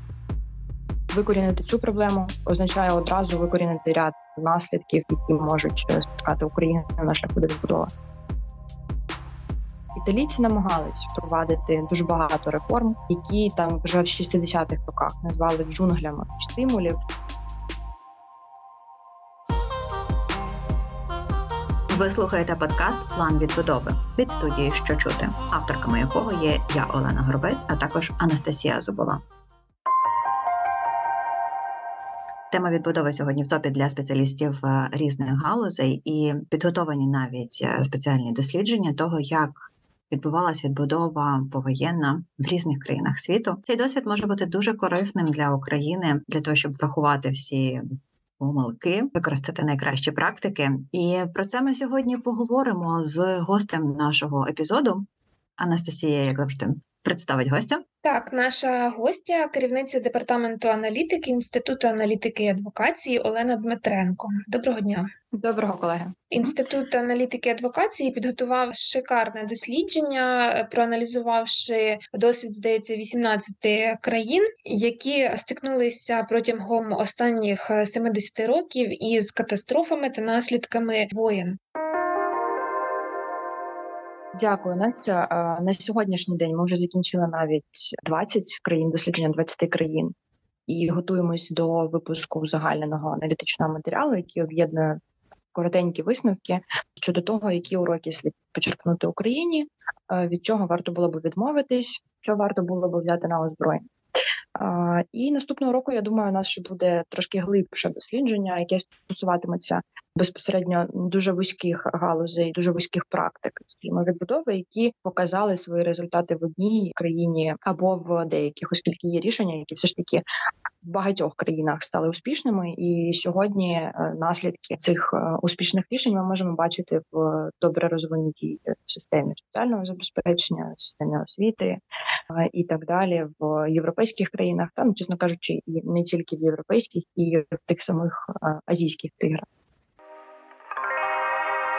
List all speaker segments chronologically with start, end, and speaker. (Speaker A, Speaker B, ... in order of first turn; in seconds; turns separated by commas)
Speaker A: 1.1-7.9, Speaker A: 9.9-17.0, Speaker B: 21.9-29.2, Speaker B: 32.5-47.8, Speaker B: 48.4-55.0, Speaker B: 55.6-57.8, Speaker C: 58.0-65.1, Speaker A: 65.3-66.5, Speaker C: 66.3-81.6, Speaker A: 84.3-90.1, Speaker A: 90.7-95.0, Speaker A: 95.5-103.8, Speaker A: 104.5-120.2, Speaker A: 120.8-139.4